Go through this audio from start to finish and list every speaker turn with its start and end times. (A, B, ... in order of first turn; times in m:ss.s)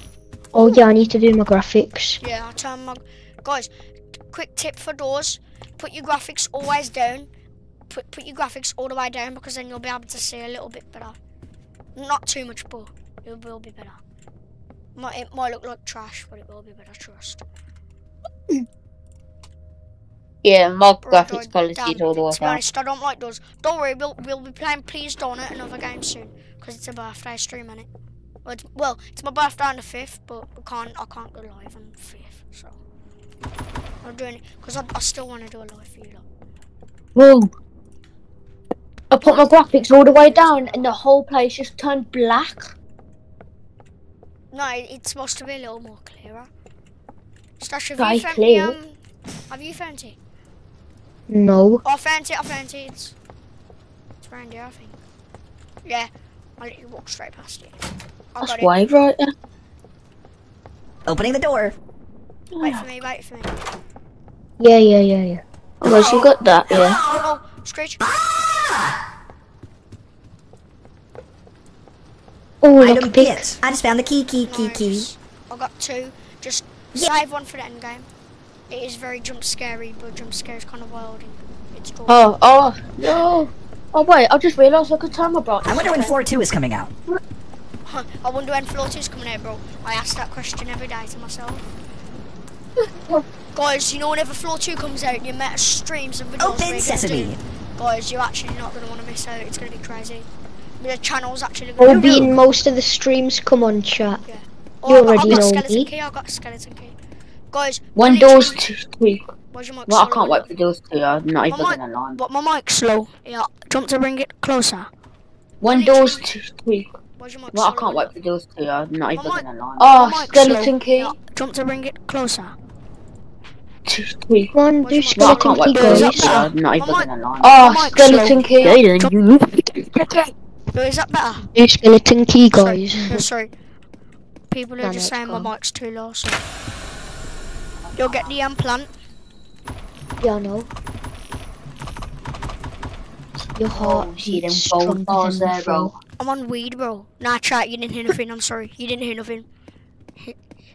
0:00.5-0:02.2 A
0:02.2-0:03.7 B
0:04.3-0:07.3 B
0:07.9-0:11.1 B
0:12.0-0:14.0 B
0:15.0-0:17.4 B
0:20.4-0:22.6 C
0:21.0-0:27.9 B
0:28.4-0:32.8 B
0:34.0-0:36.2 B
0:37.1-0:37.5 C
0:39.1-0:42.8 C
0:39.9-0:40.9 B
0:44.5-0:46.5 B
0:47.6-0:49.0 B
0:48.0-0:48.8 C
0:49.5-0:50.2 B
0:51.3-0:51.8 A
0:51.8-0:53.1 B
0:54.2-0:55.0 B
0:55.8-0:57.7 B
0:58.4-0:58.7 B
0:58.4-0:59.3 C
1:01.1-1:01.8 D
1:02.5-1:02.8 C
1:02.6-1:03.6 B
1:04.6-1:05.4 A
1:05.8-1:07.0 C
1:05.8-1:08.0 B
1:06.8-1:07.0 D
1:08.3-1:08.6 D
1:12.6-1:13.5 A
1:12.8-1:15.1 D
1:14.4-1:18.1 B
1:18.7-1:22.3 B
1:22.1-1:26.1 C
1:25.6-1:26.9 D
1:27.9-1:31.7 B
1:33.5-1:40.3 B
1:36.4-1:37.4 D
1:40.8-1:42.2 B
1:41.8-1:44.2 A
1:41.9-1:42.3 D
1:44.2-1:47.0 B
1:44.9-1:45.5 A
1:45.0-1:45.9 C
1:47.5-1:48.6 B
1:48.0-1:49.3 C
1:49.5-1:50.5 B
1:49.9-1:52.2 C
1:51.5-1:54.9 B
1:55.6-1:56.9 C
1:55.7-1:56.3 B
1:57.2-1:58.1 B
1:57.5-2:01.2 C
1:59.2-2:02.6 B
2:03.9-2:04.5 C
2:04.5-2:06.5 A
2:04.8-2:09.1 B
2:05.1-2:10.2 C
2:08.0-2:08.4 A
2:10.7-2:11.5 B
2:11.5-2:13.2 A
2:12.5-2:13.5 B
2:14.5-2:16.4 B
2:14.8-2:15.5 A
2:18.0-2:18.9 B
2:20.2-2:20.7 A
2:23.6-2:25.9 A
2:23.7-2:25.9 C
2:26.2-2:29.5 B